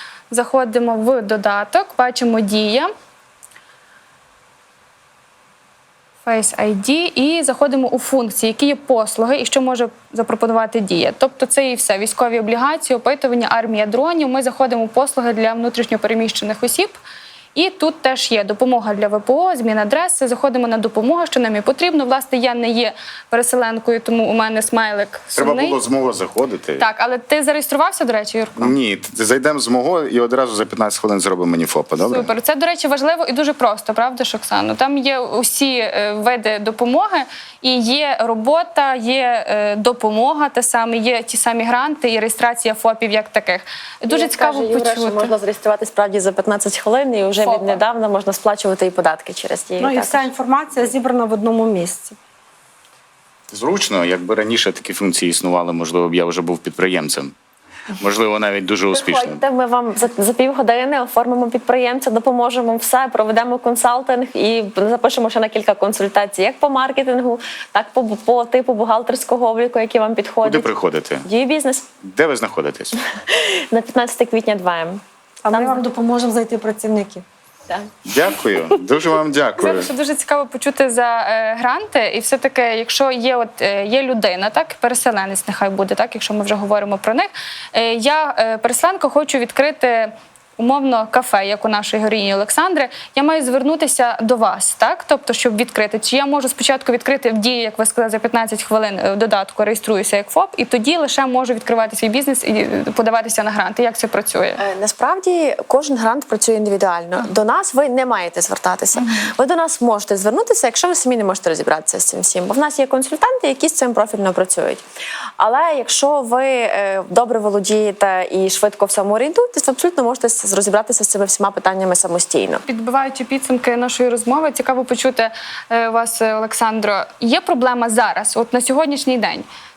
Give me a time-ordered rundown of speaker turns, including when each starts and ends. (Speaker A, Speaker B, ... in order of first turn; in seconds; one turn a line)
Speaker A: 0.3-2.9
Speaker A: 6.2-16.9
Speaker A: 17.5-25.8
Speaker B: 25.3-26.8
Speaker A: 26.8-28.7
Speaker B: 28.6-32.3
Speaker A: 32.0-45.3
Speaker C: 44.1-50.3
Speaker A: 47.4-47.8
Speaker D: 49.8-52.1
Speaker B: 53.5-57.3
Speaker B: 58.0-59.4
Speaker C: 58.9-70.7
Speaker B: 70.4-71.2
Speaker C: 71.2-71.9
Speaker B: 72.0-72.9
Speaker C: 73.2-75.8
Speaker D: 75.4-77.2
Speaker B: 78.1-79.9
Speaker A: 79.6-104.6
Speaker C: 104.6-114.8
Speaker C: 115.4-122.6
Speaker A: 122.7-129.4